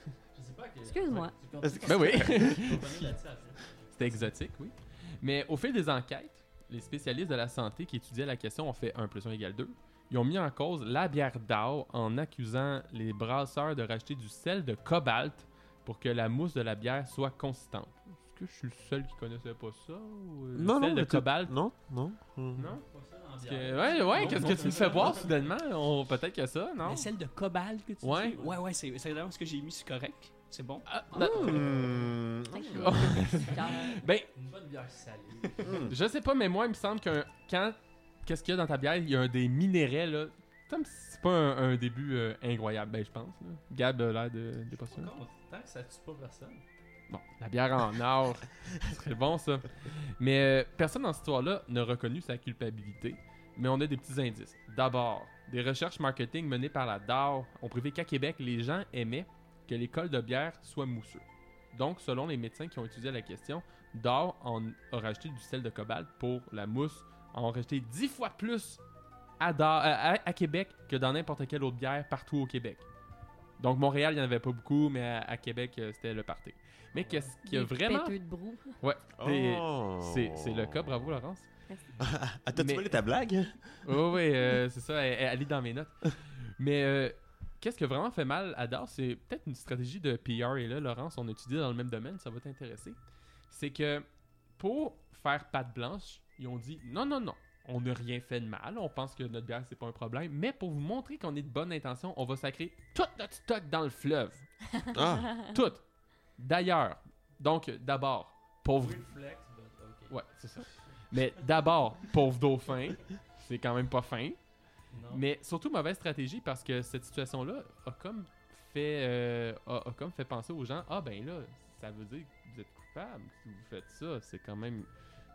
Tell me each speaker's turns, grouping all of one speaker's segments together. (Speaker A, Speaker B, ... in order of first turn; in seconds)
Speaker A: 0.3-4.3, 22.6-25.4, 31.2-32.1, 34.3-35.8, 44.7-46.6, 76.9-77.3, 108.8-111.4, 114.9-115.2
Speaker B: 0.8-1.3, 31.1-31.6, 32.5-34.0, 77.4-78.8
Speaker C: 1.6-2.6, 20.6-22.6, 31.1-33.1, 35.6-35.9, 79.2-81.1, 82.0-83.8, 104.9-105.4
Speaker D: 1.8-3.0, 3.9-21.6, 22.6-22.8, 23.4-27.1, 28.0-28.4, 30.9-32.0, 32.8-34.3, 35.8-45.1, 47.1-68.8, 69.4-72.9, 73.6-78.2, 78.8-81.5, 82.5-83.0, 83.8-93.0, 93.5-104.8, 105.4-109.0, 110.1-114.4, 115.1-124.9
Speaker E: 26.8-30.9